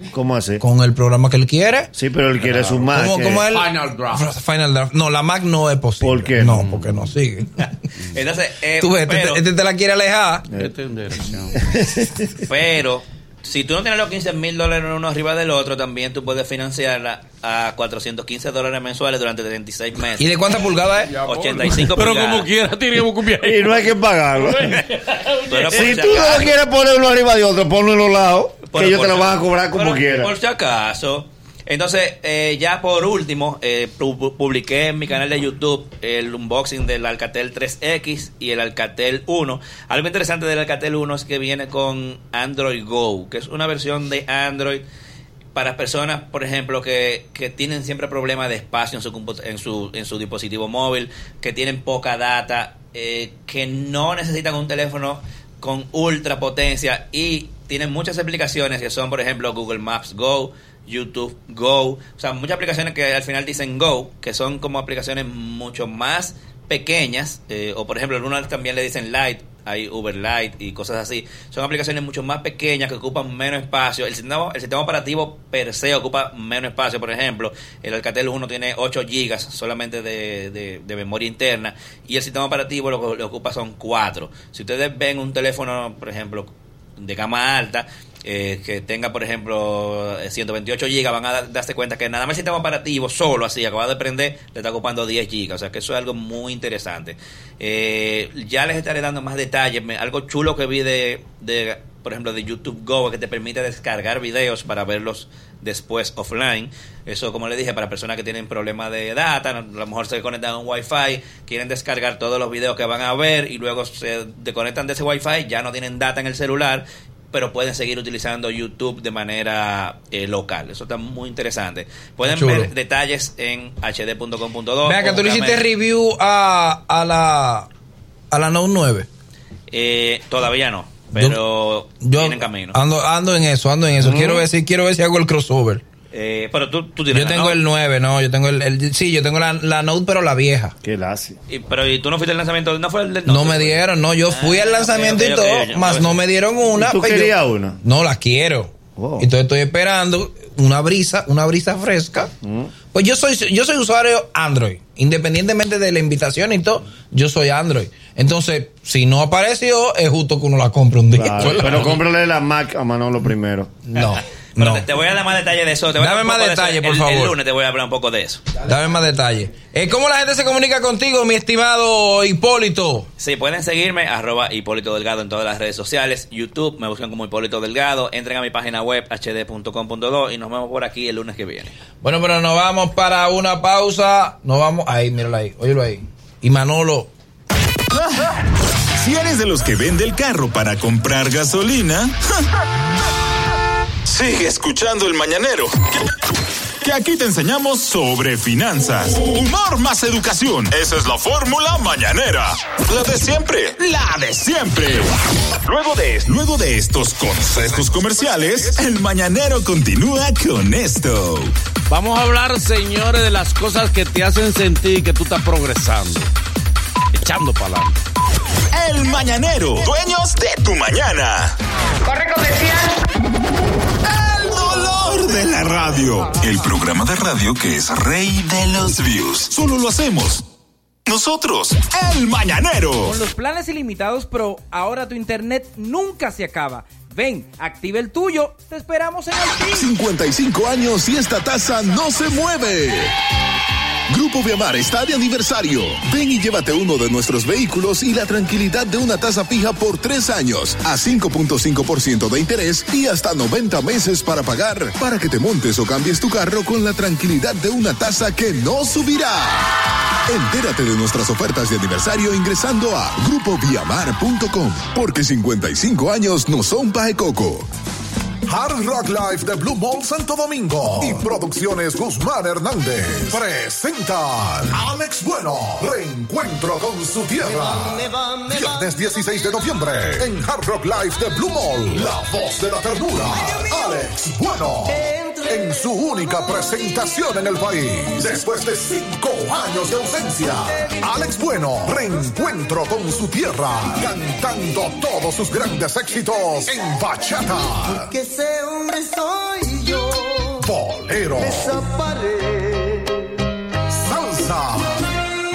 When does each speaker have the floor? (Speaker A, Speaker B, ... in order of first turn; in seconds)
Speaker A: 0.1-0.6, 1.9-3.5, 6.0-6.7, 11.6-12.4, 23.4-24.8, 25.7-30.3, 134.0-134.4, 140.8-141.3, 146.7-147.8, 148.9-149.3, 152.4-152.7, 161.1-163.7
Speaker B: 0.6-1.9, 2.9-7.7, 8.8-10.4, 20.2-21.2, 122.2-122.7, 124.8-127.7, 128.3-129.1, 132.0-135.8, 137.1-140.7, 143.3-152.3, 152.9-162.0, 163.9-164.9, 166.0-167.3, 168.6-173.1, 182.0-187.1
Speaker C: 2.4-2.9, 3.5-4.3, 6.4-7.1, 10.5-11.6, 21.1-26.2, 211.9-216.3, 217.1-218.0
Speaker D: 7.6-9.4, 12.4-20.4, 21.2-22.5, 25.5-26.5, 28.7-44.8, 45.5-125.6, 129.7-132.8, 136.1-137.6, 141.5-146.2, 161.6-161.9, 163.9-168.4, 173.2-181.7
Speaker E: 188.9-192.4, 194.0-196.1, 196.8-211.5, 218.7-221.6, 224.0-230.4, 231.1-233.1
Speaker F: 233.0-239.8
Speaker G: 239.7-243.2, 244.1-267.7
Speaker H: 268.5-298.1, 300.6-301.9, 303.9-305.1
Speaker I: 278.3-278.8, 298.1-300.5, 301.9-303.0